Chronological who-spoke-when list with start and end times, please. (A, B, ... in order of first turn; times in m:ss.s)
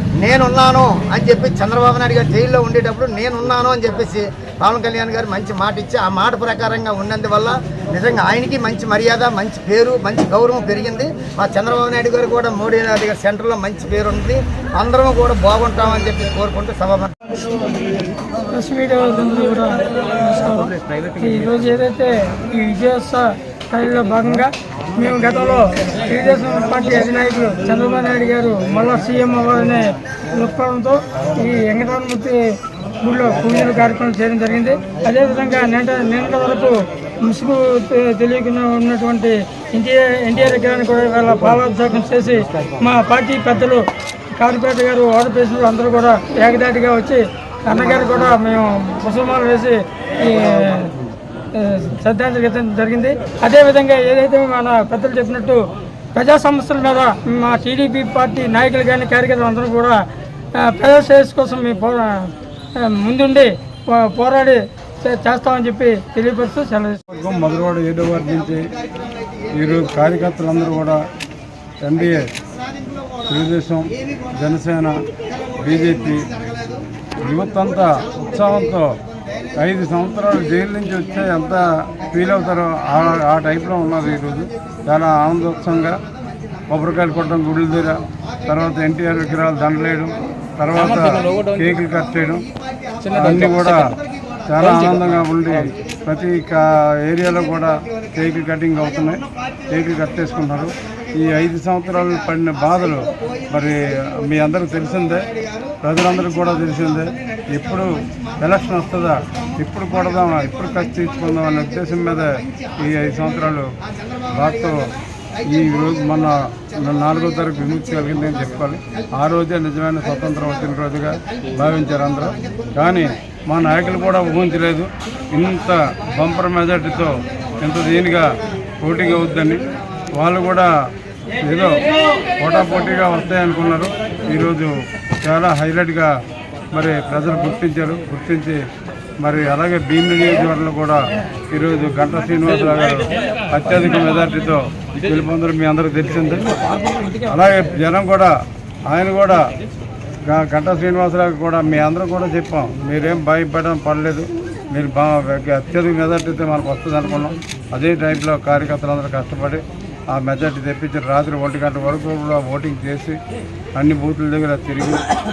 0:00.2-0:17.2 A
0:18.5-0:51.0 B
0:51.5-1:07.0 B
1:07.1-1:08.7 C
1:08.3-1:10.8 A
1:09.5-1:11.0 C
1:11.8-1:12.3 C
1:12.0-1:13.5 A
1:13.3-1:15.0 C
1:14.0-1:14.4 A
1:15.2-1:16.8 A
1:15.6-1:16.3 C
1:17.2-1:19.0 C
1:17.5-1:19.6 A
1:19.6-1:26.0 C
1:26.7-1:32.4 C
1:28.2-1:35.0 A
1:33.1-1:33.8 C
1:34.5-1:45.3 C
1:35.7-1:36.6 A
1:37.3-1:59.1 A
1:45.8-1:53.7 C
1:54.3-1:54.9 C
1:55.5-2:10.7 C
2:01.4-2:02.8 A
2:11.4-2:11.8 C
2:12.4-2:16.1 C
2:16.7-2:18.6 C
2:19.2-2:26.6 C
2:27.2-2:28.3 C
2:28.9-2:29.4 C
2:30.2-2:43.2 C
2:43.8-2:45.0 C